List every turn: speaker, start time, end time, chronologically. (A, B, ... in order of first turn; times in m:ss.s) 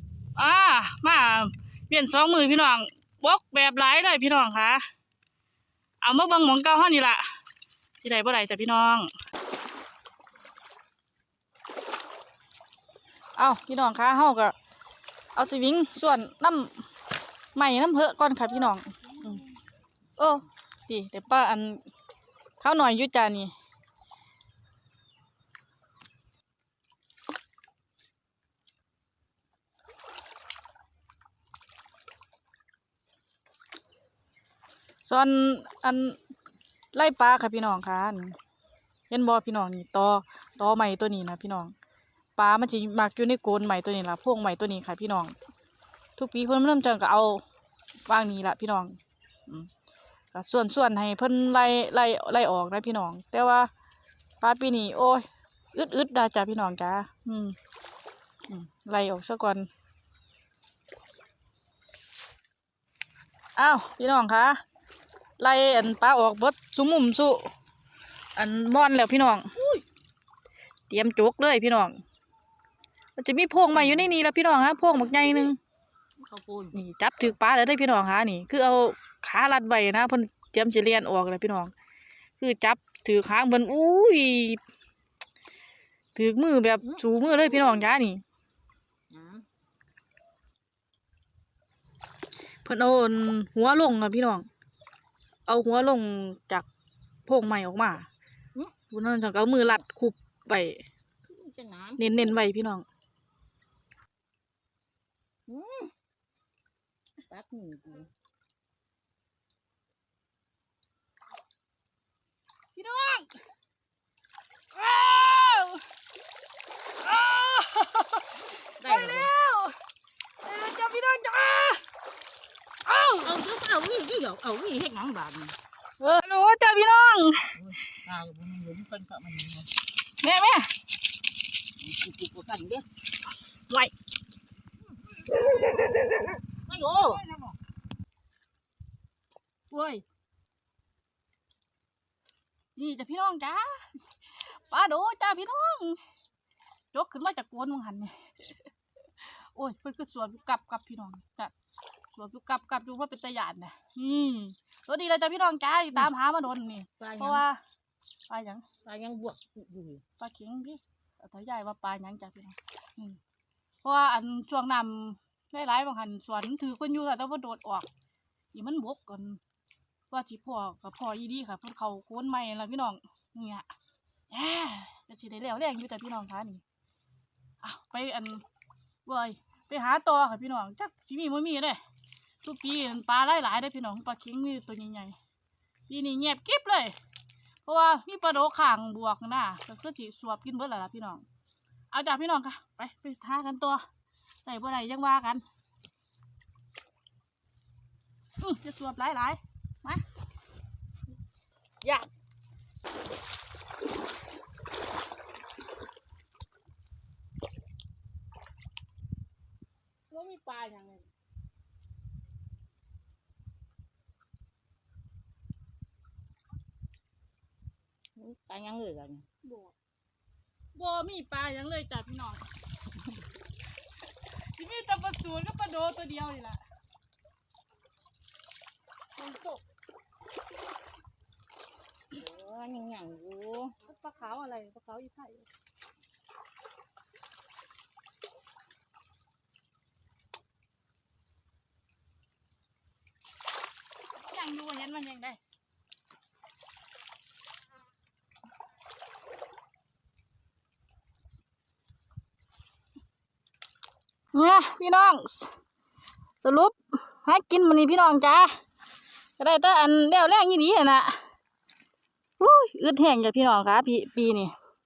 0:00.4-0:04.8 A
0:06.0-0:07.3 A
0:08.0-0:09.1 A
0:13.4-0:14.5 A
0:15.3-0:16.8 A
0:17.5-0:19.4 A
0:20.2-0:21.8 A
0:22.6-0:23.5 A
0:35.0-0:36.2 A
0:36.9-0:38.4 A
0:39.1-0:41.7 A
0:42.4-0:45.3 A
0:46.2-0:47.4 A
0:48.1-0:49.7 A
0:50.3-0:53.7 A
0:54.4-0:57.6 A
0:58.5-0:59.7 A
1:03.6-1:04.6 A
1:05.4-1:07.5 A
1:08.4-1:09.5 A
1:09.6-1:09.8 B
1:10.9-1:12.0 A
1:13.2-1:15.6 A
1:13.7-1:14.1 B
1:16.2-1:16.8 B
1:16.7-1:21.7 A
1:22.4-1:24.6 A
1:26.1-1:28.2 A
1:29.1-1:29.4 B
1:32.6-1:34.5 A
1:35.5-1:36.6 A
1:37.3-1:38.1 A
1:38.9-1:40.8 A
1:41.2-1:42.4 B
1:42.0-1:42.8 A
1:45.5-1:45.9 B
1:47.3-1:48.1 B
1:52.7-1:53.3 A
1:54.7-1:55.8 A
1:57.0-1:59.8 A
1:58.8-1:59.3 B
2:00.4-2:01.8 A
2:02.9-2:03.3 A
2:03.2-2:05.5 B
2:06.0-2:07.6 A
2:07.5-2:09.7 B
2:10.2-2:10.7 A
2:11.8-2:12.8 B
2:16.6-2:17.5 B
2:19.7-2:20.0 A
2:22.8-2:26.0 A
2:26.9-2:28.6 A
2:29.2-2:31.5 A
2:32.1-2:37.6 A
2:37.0-2:37.4 B
2:38.3-2:38.6 A
2:38.8-2:40.0 B
2:40.2-2:43.2 A
2:43.8-2:47.9 A
2:48.5-2:49.4 A
2:50.1-2:53.7 A
2:54.3-2:56.6 A
2:57.6-2:58.4 A
2:59.0-3:01.8 A
3:02.4-3:05.2 A
3:05.9-3:07.0 A
3:07.6-3:11.2 A
3:11.9-3:13.8 A
3:14.4-3:15.4 A
3:18.4-3:20.0 A
3:30.1-3:30.8 A
3:30.7-3:31.0 B
3:38.2-3:39.2 B
3:39.4-3:39.7 A
3:40.7-3:42.4 A
3:44.5-3:46.6 A
3:49.2-3:49.6 A
3:52.1-3:53.8 B
3:53.8-3:55.5 A
4:04.2-4:05.4 A
4:14.3-4:15.5 A
4:16.4-4:18.6 A
4:19.4-4:21.2 A
4:22.4-4:24.5 A